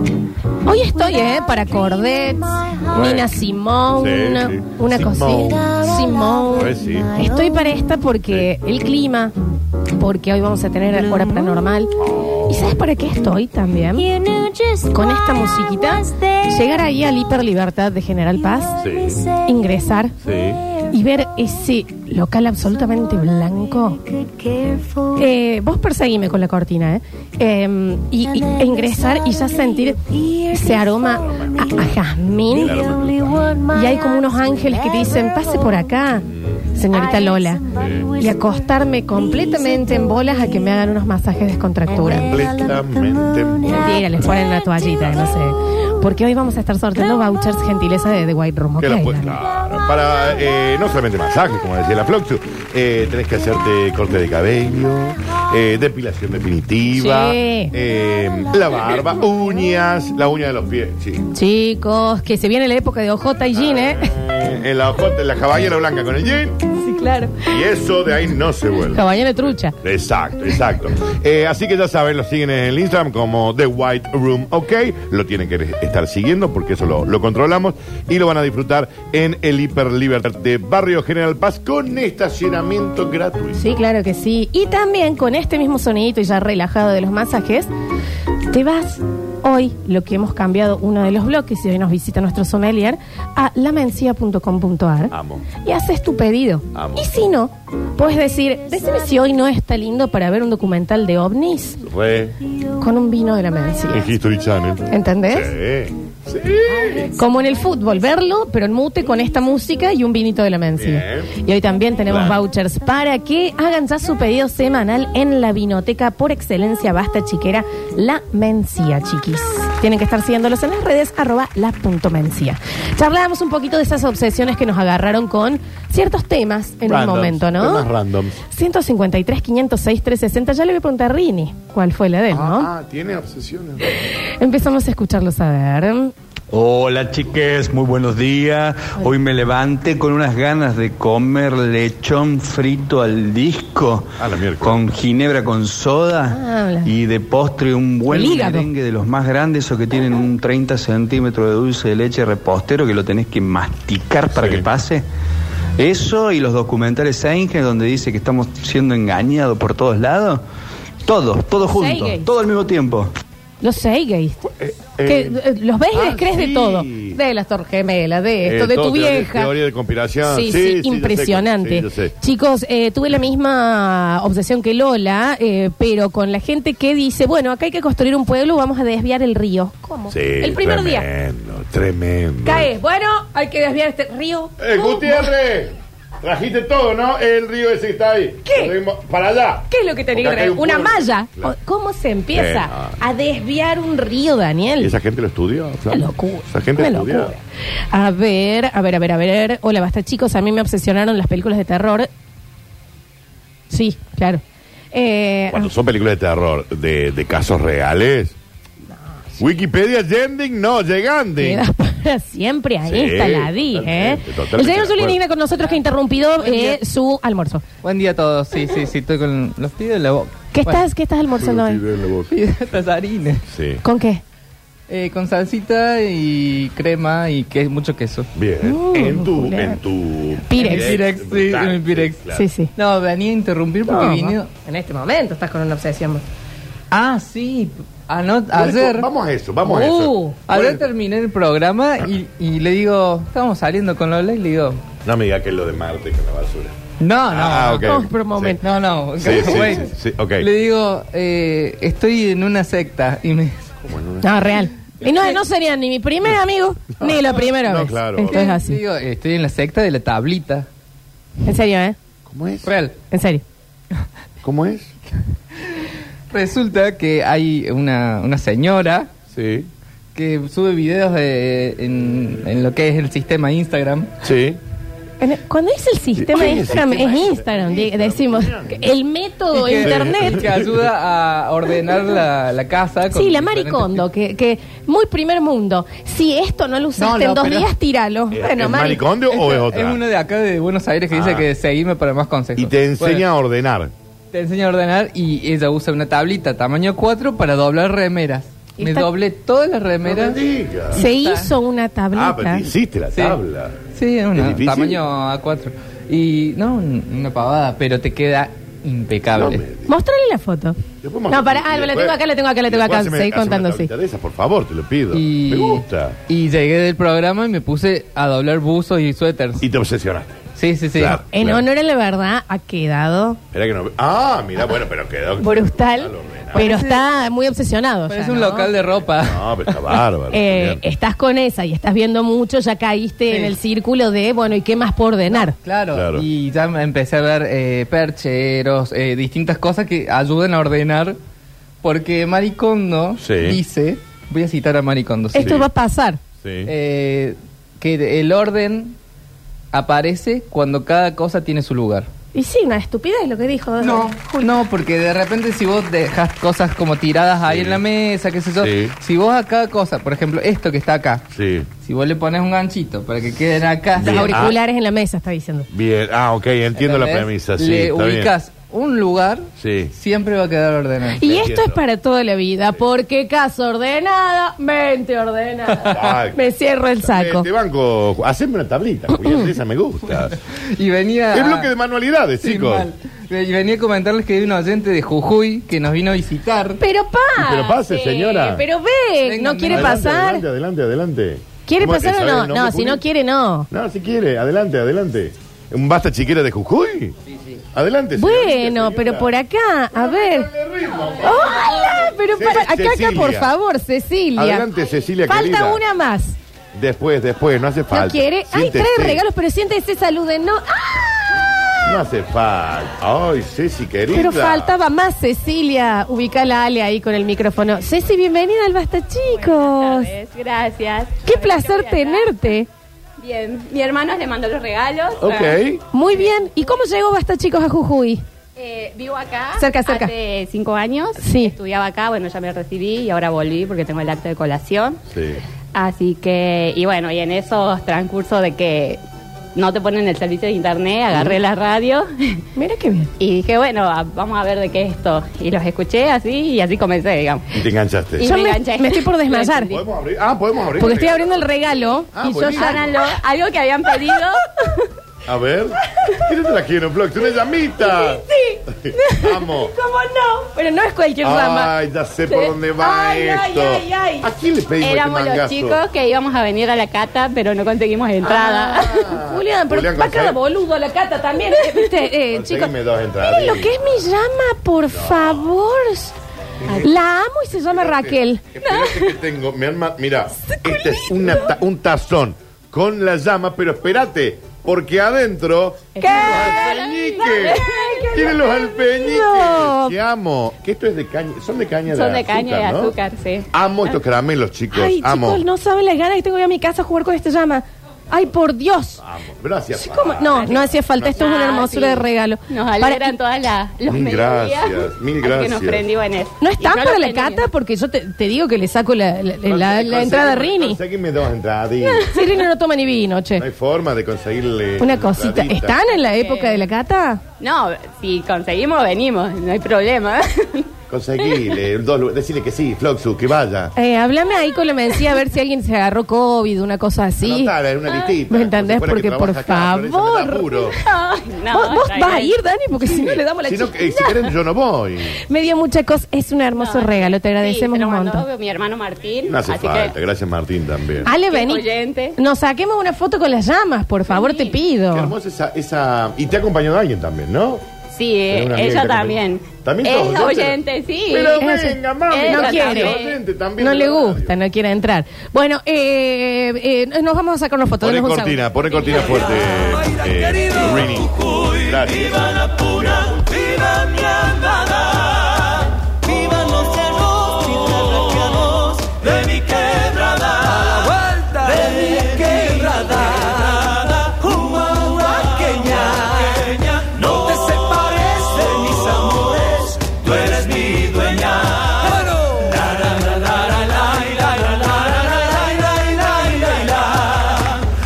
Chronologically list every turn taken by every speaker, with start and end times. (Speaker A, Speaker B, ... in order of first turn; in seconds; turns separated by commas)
Speaker A: 0.6-9.3, Speaker B: 2.9-3.3, Speaker B: 3.9-5.6, Speaker B: 6.6-7.1, Speaker A: 10.0-11.9, Speaker B: 12.0-12.8, Speaker A: 12.5-14.1, Speaker A: 14.9-18.8, Speaker B: 18.8-19.2, Speaker A: 19.4-20.1, Speaker B: 20.2-20.6, Speaker A: 20.9-24.0, Speaker A: 25.1-32.8, Speaker B: 31.2-31.7, Speaker B: 32.5-33.5, Speaker A: 33.7-37.6, Speaker B: 36.3-36.7, Speaker B: 37.7-38.1, Speaker A: 38.2-42.3, Speaker B: 42.1-44.3, Speaker A: 43.7-49.4, Speaker B: 44.9-45.3, Speaker B: 48.8-61.2, Speaker A: 56.9-57.7, Speaker A: 61.3-64.1, Speaker B: 63.5-66.6, Speaker A: 66.8-67.5, Speaker B: 67.5-83.7, Speaker A: 68.9-69.8, Speaker A: 83.5-87.7, Speaker A: 88.5-101.8, Speaker B: 95.1-95.5, Speaker B: 96.7-97.1, Speaker B: 101.8-102.3, Speaker A: 102.8-104.0, Speaker B: 103.9-107.1, Speaker A: 104.9-105.5, Speaker A: 107.1-127.8, Speaker B: 110.8-111.3, Speaker B: 112.1-112.4, Speaker B: 126.8-128.4, Speaker A: 128.5-132.7, Speaker B: 132.3-133.8, Speaker A: 134.4-136.1, Speaker C: 136.5-155.0, Speaker B: 144.2-144.8, Speaker A: 146.3-146.9, Speaker A: 148.1-148.7, Speaker B: 154.3-154.7, Speaker C: 155.8-160.4, Speaker C: 161.0-163.1, Speaker A: 161.7-162.2, Speaker A: 163.6-164.4, Speaker B: 164.4-165.4, Speaker A: 165.0-169.5, Speaker B: 165.9-167.2, Speaker B: 168.4-172.1, Speaker A: 170.2-181.1, Speaker B: 180.1-182.7, Speaker A: 182.4-185.3, Speaker B: 184.6-191.5, Speaker A: 188.4-188.7, Speaker A: 189.7-194.9, Speaker B: 192.3-193.0, Speaker B: 194.8-197.3, Speaker A: 195.9-202.1, Speaker A: 203.7-204.4, Speaker A: 204.9-205.7, Speaker B: 205.5-208.3, Speaker B: 209.4-211.6, Speaker A: 211.4-217.6, Speaker B: 212.8-215.2, Speaker D: 216.4-216.8, Speaker D: 217.8-220.8, Speaker A: 220.5-221.8, Speaker B: 221.4-222.3, Speaker D: 222.3-223.4, Speaker B: 223.5-223.8, Speaker A: 223.8-224.2, Speaker D: 224.9-228.3, Speaker B: 228.3-232.4, Speaker A: 228.6-229.8, Speaker A: 230.5-231.0, Speaker D: 230.6-232.2, Speaker A: 232.3-232.7, Speaker D: 232.8-234.5, Speaker A: 233.9-236.2, Speaker D: 236.9-239.1, Speaker B: 238.5-240.8, Speaker A: 239.6-240.4, Speaker D: 240.5-244.8, Speaker B: 245.0-246.7, Speaker D: 247.0-247.9, Speaker B: 247.3-248.6, Speaker A: 247.8-248.6, Speaker D: 248.6-253.6, Speaker B: 249.2-250.5, Speaker B: 253.8-254.6, Speaker A: 254.2-258.8, Speaker B: 257.0-258.4, Speaker D: 258.2-260.7, Speaker A: 261.4-261.9, Speaker B: 262.3-262.7, Speaker D: 262.6-262.9, Speaker A: 263.1-263.4, Speaker B: 264.4-264.9, Speaker D: 266.3-269.1, Speaker B: 269.3-269.7, Speaker D: 270.1-274.1, Speaker B: 274.2-274.6, Speaker A: 275.2-280.4, Speaker B: 276.2-278.9, Speaker D: 279.5-284.0, Speaker B: 279.8-280.8, Speaker A: 283.1-289.0, Speaker B: 287.0-287.7, Speaker B: 288.3-290.0, Speaker D: 289.3-293.2, Speaker B: 291.1-291.4, Speaker B: 292.6-293.9, Speaker D: 294.3-300.4, Speaker A: 298.8-299.1, Speaker B: 300.0-301.0, Speaker D: 300.9-301.5, Speaker A: 300.9-302.7, Speaker B: 302.1-303.8, Speaker D: 303.1-303.4, Speaker D: 303.9-309.6, Speaker B: 304.3-305.0, Speaker B: 309.3-309.9, Speaker A: 309.9-313.9, Speaker B: 311.0-316.1, Speaker D: 315.1-319.6, Speaker B: 319.6-321.6, Speaker D: 320.6-321.2, Speaker A: 321.3-323.4, Speaker B: 323.5-326.7, Speaker A: 325.4-328.7, Speaker D: 326.5-327.0, Speaker D: 328.1-329.4, Speaker B: 329.1-330.8, Speaker A: 330.3-335.5, Speaker D: 333.3-333.5, Speaker D: 335.3-341.2, Speaker B: 335.9-336.2, Speaker D: 341.8-345.6, Speaker B: 343.2-343.6, Speaker A: 345.3-346.2, Speaker B: 345.4-345.6, Speaker B: 346.4-346.7, Speaker D: 346.6-348.9, Speaker D: 349.7-352.1, Speaker A: 352.3-354.6, Speaker D: 353.8-361.2, Speaker B: 357.4-357.8, Speaker B: 358.6-358.9, Speaker B: 361.3-361.7, Speaker D: 361.8-364.5, Speaker B: 364.0-364.6, Speaker A: 364.0-365.7, Speaker B: 365.7-368.3, Speaker D: 366.7-371.2, Speaker B: 369.6-369.9, Speaker A: 371.2-377.4, Speaker B: 371.2-371.8, Speaker B: 375.9-376.4, Speaker B: 377.0-380.3, Speaker D: 380.1-381.7, Speaker B: 381.3-382.9, Speaker D: 382.4-386.8, Speaker A: 386.8-390.4, Speaker B: 387.4-388.6, Speaker D: 389.2-390.0, Speaker B: 389.7-393.0, Speaker A: 391.6-393.7, Speaker B: 393.7-397.2, Speaker B: 397.7-399.3, Speaker A: 398.1-400.5, Speaker B: 399.9-403.5, Speaker A: 401.2-404.7, Speaker B: 404.4-405.8, Speaker A: 405.3-406.4, Speaker B: 406.7-409.2, Speaker A: 407.9-411.9, Speaker B: 411.8-414.7, Speaker A: 414.1-420.1, Speaker E: 419.4-422.3, Speaker A: 421.2-422.7, Speaker E: 423.2-425.6, Speaker B: 425.2-425.8, Speaker A: 425.9-428.2, Speaker E: 428.6-435.0, Speaker A: 429.6-430.1, Speaker A: 431.2-431.5, Speaker B: 435.1-435.4, Speaker E: 435.7-439.0, Speaker E: 439.6-442.4, Speaker A: 442.6-443.1, Speaker E: 443.2-447.4, Speaker B: 447.5-448.2, Speaker A: 448.2-449.7, Speaker E: 448.2-449.8, Speaker B: 449.7-451.5, Speaker A: 450.8-453.0, Speaker B: 452.1-453.0, Speaker E: 452.5-454.4, Speaker B: 455.2-459.7, Speaker A: 457.8-461.7, Speaker B: 461.2-465.8, Speaker A: 462.3-464.3, Speaker E: 464.8-469.0, Speaker A: 468.2-476.1, Speaker B: 468.4-470.4, Speaker B: 472.3-473.9, Speaker B: 474.9-475.4, Speaker A: 476.8-479.0, Speaker B: 477.8-492.9, Speaker A: 480.4-481.5, Speaker A: 486.0-489.9, Speaker E: 486.0-487.5, Speaker E: 491.9-493.5, Speaker B: 493.5-495.4, Speaker A: 494.7-499.0, Speaker B: 499.0-501.2, Speaker A: 499.8-503.1, Speaker E: 500.4-507.5, Speaker B: 503.9-505.9, Speaker A: 506.4-510.8, Speaker B: 509.4-512.1, Speaker A: 512.1-513.4, Speaker B: 513.4-515.8, Speaker A: 514.8-517.2, Speaker E: 515.9-516.6, Speaker E: 517.4-520.7, Speaker B: 520.9-523.7, Speaker A: 523.7-527.5, Speaker B: 527.2-530.8, Speaker A: 528.3-530.7, Speaker E: 530.7-532.3, Speaker A: 531.5-534.2, Speaker B: 533.4-535.2, Speaker A: 535.3-538.2, Speaker E: 536.5-539.9, Speaker B: 539.3-541.1, Speaker A: 541.0-541.6, Speaker E: 541.2-542.2, Speaker A: 542.1-545.1, Speaker E: 544.1-544.5, Speaker B: 544.9-547.6, Speaker E: 547.9-553.2, Speaker B: 548.3-554.3, Speaker A: 551.4-553.0, Speaker A: 553.6-558.4, Speaker B: 557.8-563.5, Speaker F: 578.3-578.6, Speaker F: 580.1-581.1, Speaker F: 583.3-586.8